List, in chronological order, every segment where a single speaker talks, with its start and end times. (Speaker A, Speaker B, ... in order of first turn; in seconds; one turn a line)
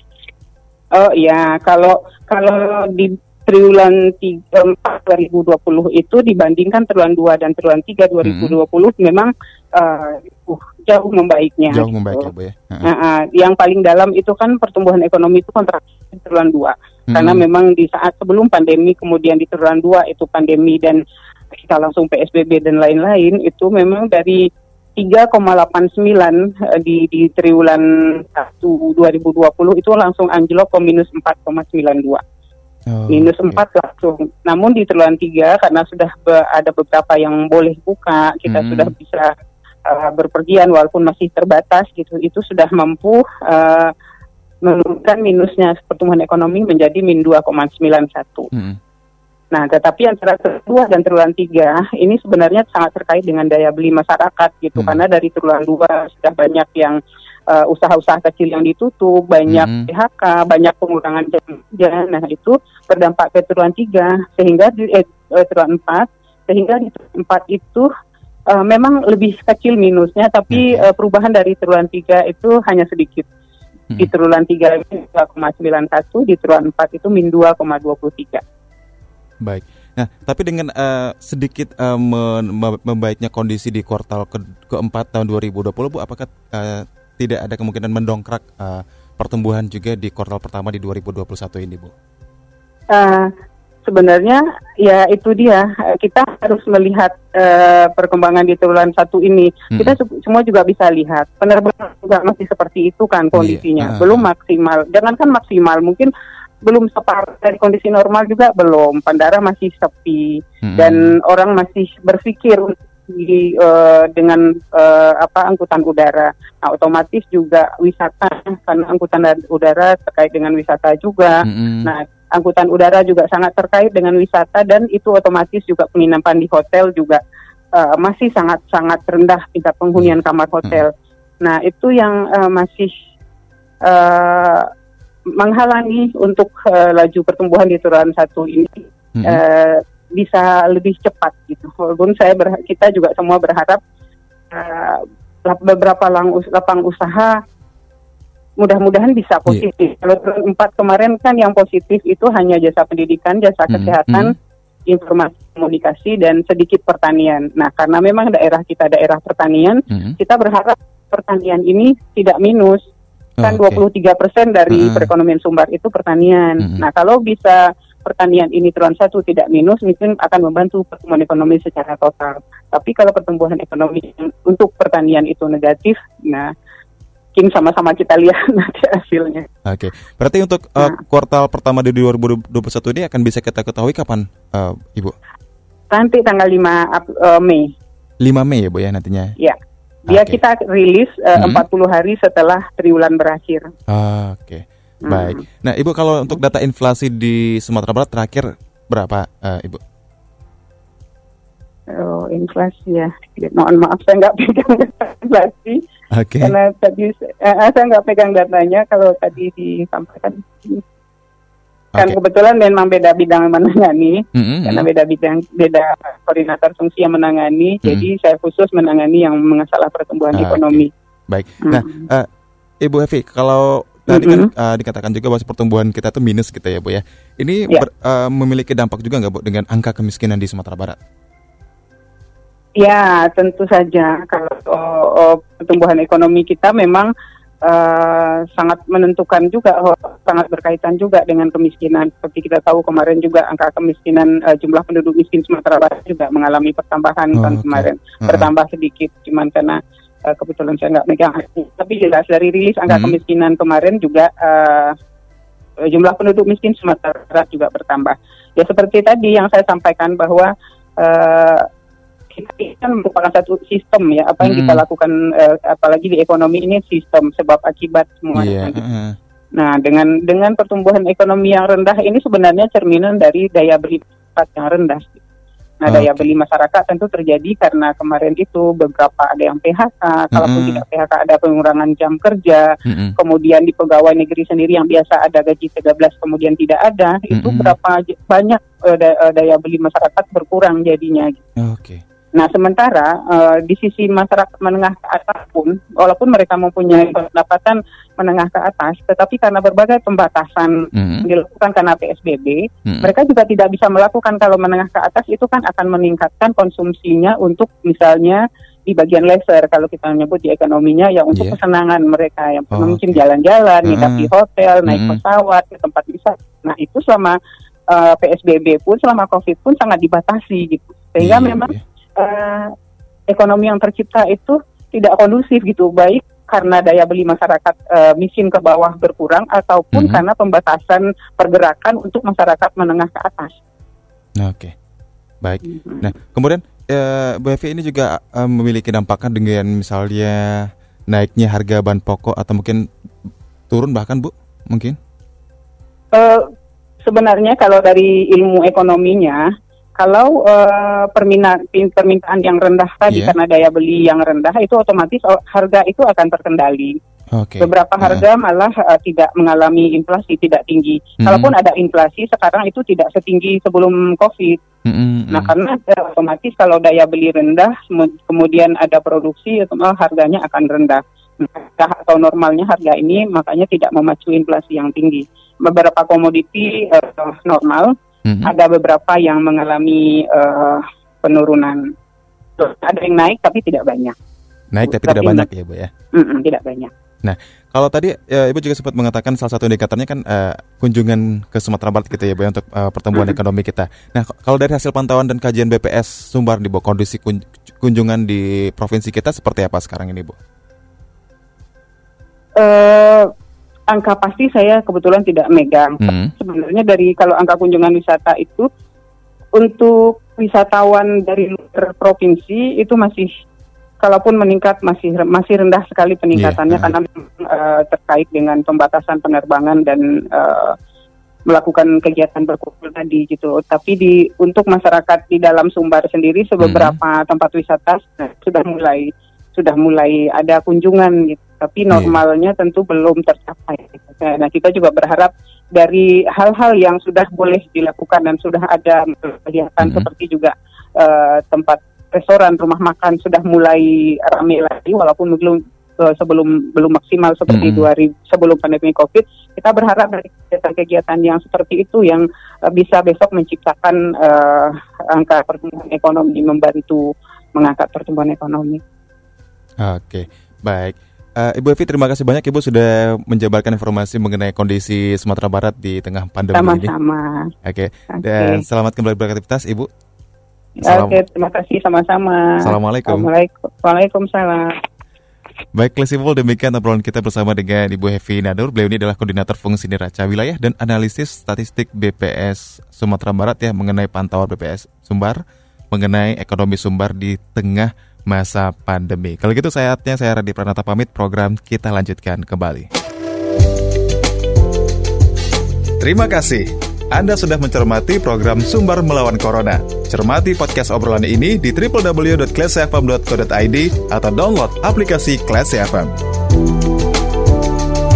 Speaker A: 0.9-12.3
Speaker B: 8.2-8.6
Speaker B: 11.7-12.9
Speaker A: 12.8-21.0
Speaker B: 17.1-17.4
Speaker A: 21.5-24.4
Speaker A: 24.9-32.2
Speaker B: 32.9-33.6
Speaker A: 33.1-39.3
Speaker B: 38.5-38.9
Speaker A: 39.9-43.9
Speaker A: 44.6-48.5
Speaker B: 48.5-48.8
Speaker A: 49.5-67.9
Speaker B: 54.8-55.0
Speaker B: 59.5-59.9
Speaker A: 68.5-73.3
Speaker B: 70.5-70.9
Speaker A: 74.0-78.4
Speaker B: 79.4-91.9
Speaker A: 92.9-93.3
Speaker A: 93.8-106.1
Speaker B: 99.7-100.0
Speaker B: 103.3-104.2
Speaker A: 106.7-127.2
Speaker B: 110.6-111.1
Speaker B: 121.4-121.9
Speaker A: 127.7-132.9
Speaker A: 133.8-134.7
Speaker A: 135.4-143.8
Speaker B: 139.1-139.4
Speaker A: 144.5-147.3
Speaker A: 148.6-154.3
Speaker B: 153.7-154.3
Speaker A: 154.9-162.8
Speaker B: 159.9-160.2
Speaker B: 163.4-163.8
Speaker A: 163.4-176.5
Speaker B: 164.7-165.1
Speaker B: 166.6-166.8
Speaker A: 177.3-179.4
Speaker B: 179.7-185.1
Speaker A: 185.9-187.7
Speaker B: 188.2-189.3
Speaker B: 190.1-190.4
Speaker A: 190.1-193.7
Speaker B: 191.3-191.6
Speaker B: 193.9-199.8
Speaker A: 195.0-195.4
Speaker A: 201.9-205.8
Speaker B: 206.1-206.6
Speaker A: 206.4-210.8
Speaker A: 211.9-220.9
Speaker B: 214.3-214.9
Speaker B: 217.8-218.1
Speaker B: 220.3-222.3
Speaker A: 221.6-222.0
Speaker B: 222.8-231.0
Speaker A: 224.1-224.5
Speaker A: 232.8-237.1
Speaker A: 237.6-254.9
Speaker B: 247.3-248.5
Speaker B: 252.9-253.2
Speaker A: 255.9-261.6
Speaker A: 262.3-268.8
Speaker B: 264.4-264.8
Speaker B: 268.3-269.1
Speaker A: 269.6-275.2
Speaker A: 275.8-291.4
Speaker B: 275.9-276.3
Speaker B: 280.3-280.8
Speaker B: 282.9-283.1
Speaker B: 287.3-287.8
Speaker B: 291.6-292.0
Speaker A: 292.3-317.4
Speaker B: 300.9-301.3
Speaker B: 302.9-303.1
Speaker B: 311.3-311.6
Speaker B: 312.7-313.2
Speaker B: 313.8-314.3
Speaker B: 314.9-315.2
Speaker A: 317.9-322.7
Speaker B: 321.2-321.8
Speaker A: 323.3-333.5
Speaker B: 329.9-330.2
Speaker B: 334.4-334.7
Speaker B: 335.4-342.8
Speaker A: 335.6-336.1
Speaker B: 343.7-344.9
Speaker A: 346.1-346.5
Speaker A: 347.0-349.4
Speaker A: 350.0-356.9
Speaker B: 353.1-353.4
Speaker B: 357.3-358.2
Speaker A: 357.6-364.6
Speaker B: 361.2-361.5
Speaker B: 364.9-365.5
Speaker A: 365.3-377.9
Speaker B: 378.2-378.5
Speaker A: 378.4-381.8
Speaker A: 382.6-384.1
Speaker B: 384.7-385.9
Speaker A: 384.8-385.4
Speaker A: 386.1-386.9
Speaker B: 387.2-400.4
Speaker A: 402.6-403.3
Speaker A: 403.9-408.7
Speaker B: 406.0-406.3
Speaker A: 409.5-413.3
Speaker A: 414.0-420.7
Speaker B: 416.3-416.9
Speaker A: 421.5-457.0
Speaker B: 426.6-427.0
Speaker B: 431.9-432.2
Speaker B: 439.8-440.1
Speaker B: 447.5-447.9
Speaker A: 457.5-458.8
Speaker B: 459.8-466.9
Speaker A: 466.5-467.5
Speaker B: 467.6-469.9
Speaker A: 468.1-468.6
Speaker A: 470.8-474.7
Speaker B: 470.8-471.2
Speaker B: 472.6-473.3
Speaker B: 475.7-492.9
Speaker B: 496.0-506.1